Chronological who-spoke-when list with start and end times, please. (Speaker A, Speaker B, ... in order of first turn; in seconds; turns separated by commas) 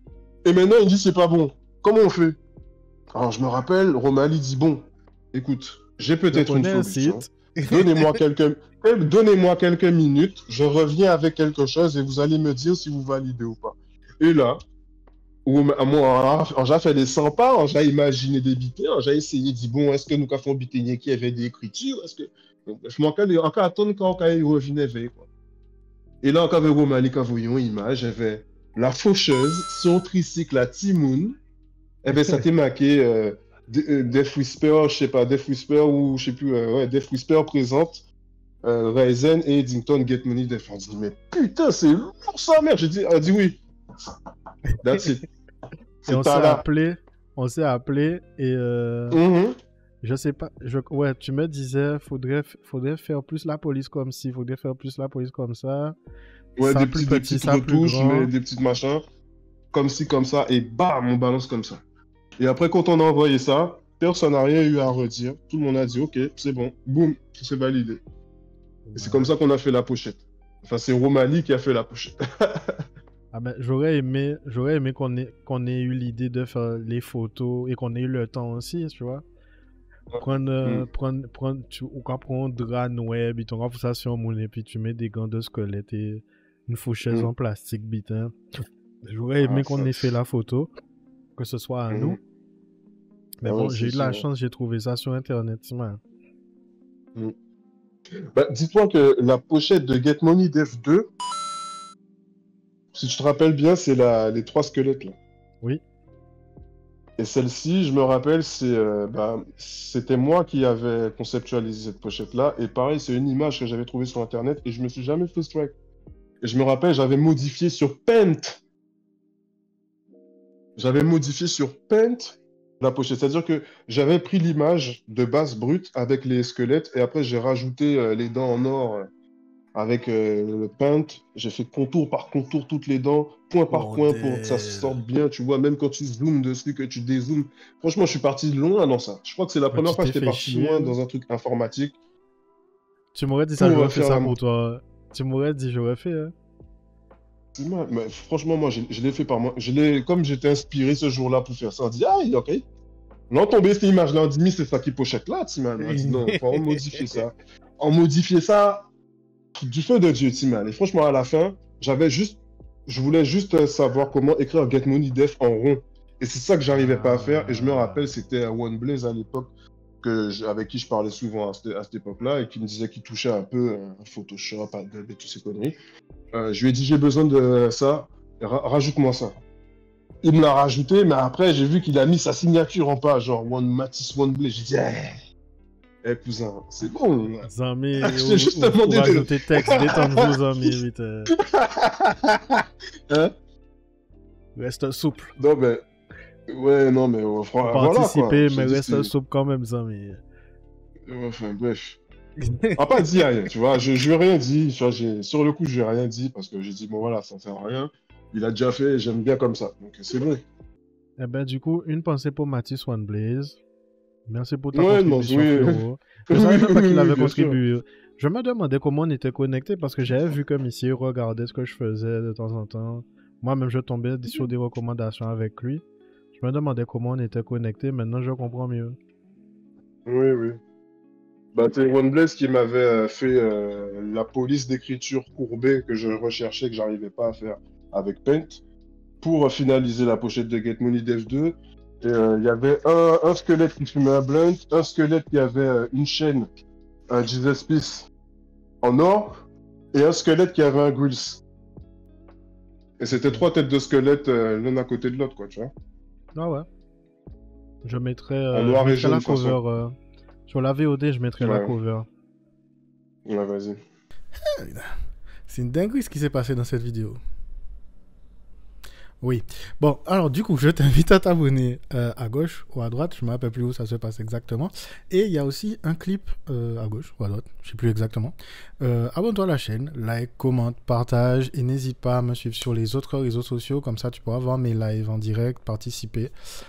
Speaker A: 0.4-2.4, Speaker A: 3.1-14.6, Speaker B: 6.3-8.2, Speaker A: 15.4-25.3, Speaker A: 26.2-31.4, Speaker A: 32.0-38.0, Speaker B: 32.1-32.5, Speaker A: 38.6-44.1, Speaker A: 44.8-45.2, Speaker B: 44.8-45.1, Speaker A: 46.0-46.7, Speaker B: 46.1-49.2, Speaker A: 49.1-49.5, Speaker B: 50.0-56.0, Speaker A: 56.6-59.0, Speaker B: 56.6-58.3, Speaker A: 59.7-61.8, Speaker A: 62.4-68.0, Speaker B: 68.9-69.3, Speaker A: 69.0-72.7, Speaker B: 73.3-79.2, Speaker A: 80.1-80.9, Speaker B: 80.2-88.3, Speaker B: 89.0-90.7, Speaker A: 89.4-90.0, Speaker B: 91.4-92.2, Speaker A: 91.9-92.2, Speaker B: 93.4-96.0, Speaker A: 93.4-94.3, Speaker A: 98.3-101.1, Speaker A: 103.0-105.1, Speaker A: 107.2-115.8, Speaker A: 116.4-118.6, Speaker A: 120.8-129.1, Speaker A: 129.8-142.0, Speaker B: 133.7-135.0, Speaker B: 139.7-141.0, Speaker B: 143.1-146.3, Speaker A: 143.6-144.4, Speaker A: 147.6-152.7, Speaker A: 153.3-158.9, Speaker B: 155.9-157.1, Speaker A: 159.6-169.5, Speaker B: 166.7-168.1, Speaker A: 170.0-175.8, Speaker A: 176.3-179.3, Speaker A: 180.2-185.2, Speaker A: 186.0-187.5, Speaker B: 187.4-191.3, Speaker A: 188.0-190.8, Speaker A: 191.3-193.3, Speaker B: 194.6-195.3, Speaker A: 195.4-195.8, Speaker A: 196.5-199.1, Speaker B: 197.7-200.2, Speaker A: 201.1-202.0, Speaker B: 202.4-203.1, Speaker A: 202.8-210.4, Speaker B: 211.2-213.6, Speaker B: 214.3-225.8, Speaker A: 214.7-217.6, Speaker B: 226.3-229.0, Speaker A: 230.1-230.6, Speaker A: 231.5-238.6, Speaker A: 239.2-246.5, Speaker A: 247.1-248.1, Speaker A: 248.8-251.4, Speaker A: 253.0-255.7, Speaker B: 253.1-253.5, Speaker B: 256.4-256.7, Speaker B: 257.8-259.9, Speaker A: 258.5-259.6, Speaker B: 260.5-262.1, Speaker A: 261.4-261.8, Speaker A: 263.3-263.8, Speaker B: 264.4-264.9, Speaker B: 265.5-267.2, Speaker B: 269.2-286.3